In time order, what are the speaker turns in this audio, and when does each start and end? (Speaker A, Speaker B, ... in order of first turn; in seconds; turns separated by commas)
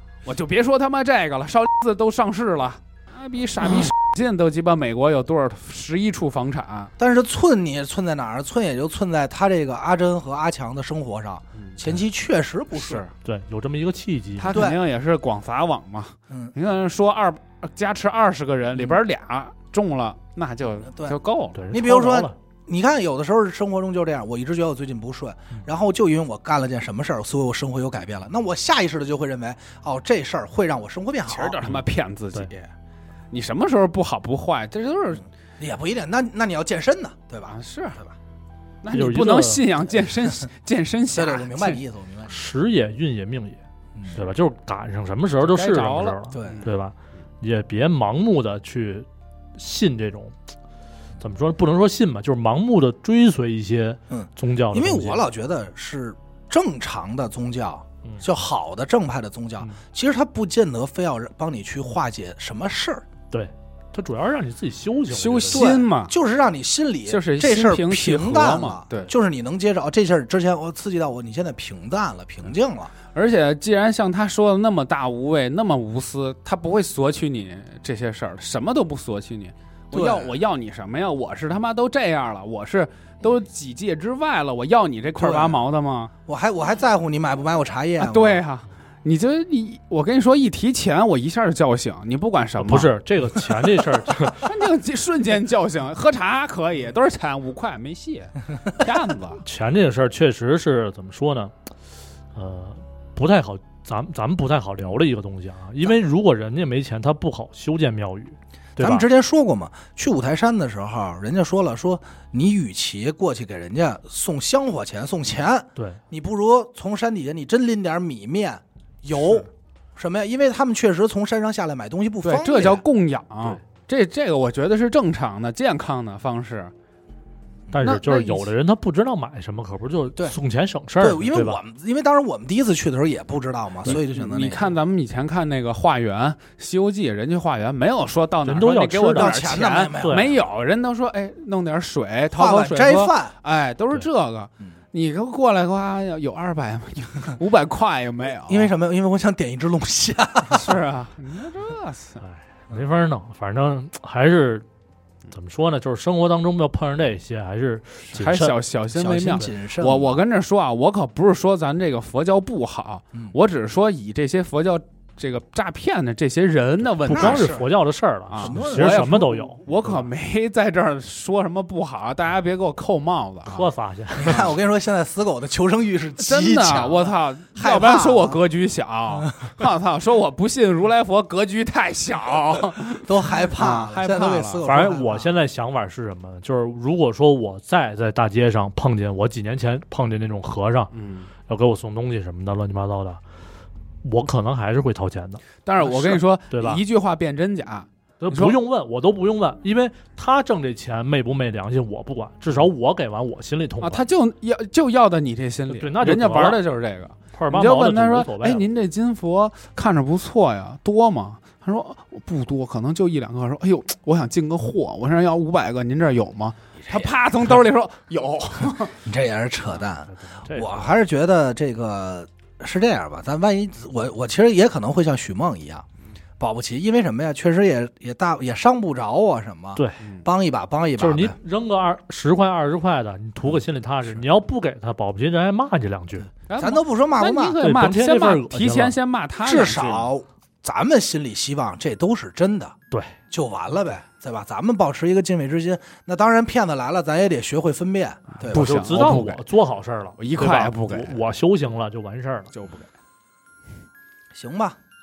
Speaker A: 0.2-6.9, Speaker B: 7.0-13.0, Speaker A: 11.5-11.8, Speaker A: 12.7-13.1, Speaker C: 13.2-14.7, Speaker A: 14.4-21.6, Speaker B: 14.5-14.8, Speaker B: 20.8-21.2, Speaker C: 21.5-22.3, Speaker B: 21.7-31.6, Speaker A: 31.3-32.7, Speaker A: 33.3-35.2, Speaker B: 35.6-38.1, Speaker A: 37.5-38.0, Speaker A: 38.8-41.8, Speaker C: 38.9-39.6, Speaker B: 41.1-42.3, Speaker C: 42.3-43.6, Speaker B: 43.9-44.2, Speaker C: 44.1-50.3, Speaker A: 45.4-46.7, Speaker B: 46.3-46.7, Speaker C: 51.2-55.2, Speaker B: 54.1-63.0, Speaker C: 63.3-65.7, Speaker A: 65.1-66.1, Speaker B: 65.5-72.9, Speaker A: 67.1-69.1, Speaker A: 73.1-86.1, Speaker B: 79.9-80.4, Speaker B: 85.2-85.6, Speaker B: 86.2-88.4, Speaker A: 88.0-92.9, Speaker C: 92.6-94.5, Speaker A: 94.4-99.4, Speaker C: 99.4-101.5, Speaker C: 102.3-109.0, Speaker B: 108.8-122.8, Speaker C: 115.7-116.0, Speaker A: 122.2-126.7, Speaker C: 127.7-131.6, Speaker A: 127.8-128.5, Speaker B: 131.0-134.8, Speaker A: 133.8-148.7, Speaker C: 138.4-139.4, Speaker B: 139.1-140.4, Speaker C: 140.0-140.2, Speaker B: 142.3-143.3, Speaker B: 148.4-150.8, Speaker A: 150.5-152.2, Speaker C: 152.2-154.7, Speaker C: 155.3-158.6, Speaker A: 158.1-167.7, Speaker B: 158.9-160.2, Speaker B: 167.1-167.7, Speaker C: 167.1-169.6, Speaker A: 168.3-173.7, Speaker B: 168.4-169.1, Speaker C: 173.4-174.5, Speaker B: 174.1-178.4, Speaker A: 176.2-184.6, Speaker B: 183.0-185.3, Speaker C: 184.6-190.9, Speaker A: 190.9-191.3, Speaker C: 191.5-193.2, Speaker C: 194.0-196.8, Speaker A: 195.6-198.6, Speaker C: 198.2-204.1, Speaker A: 203.8-218.9, Speaker C: 205.7-206.6, Speaker C: 207.3-208.7, Speaker B: 219.0-225.8, Speaker C: 220.1-220.9, Speaker B: 226.4-231.3, Speaker C: 229.8-230.0, Speaker C: 231.0-236.3, Speaker A: 236.5-240.1, Speaker B: 236.6-237.6, Speaker C: 237.6-238.9, Speaker B: 239.4-242.8, Speaker C: 242.9-243.2, Speaker B: 243.3-249.2, Speaker A: 248.4-249.4, Speaker C: 248.5-252.5, Speaker A: 250.2-251.2, Speaker A: 252.5-252.9, Speaker B: 254.3-254.8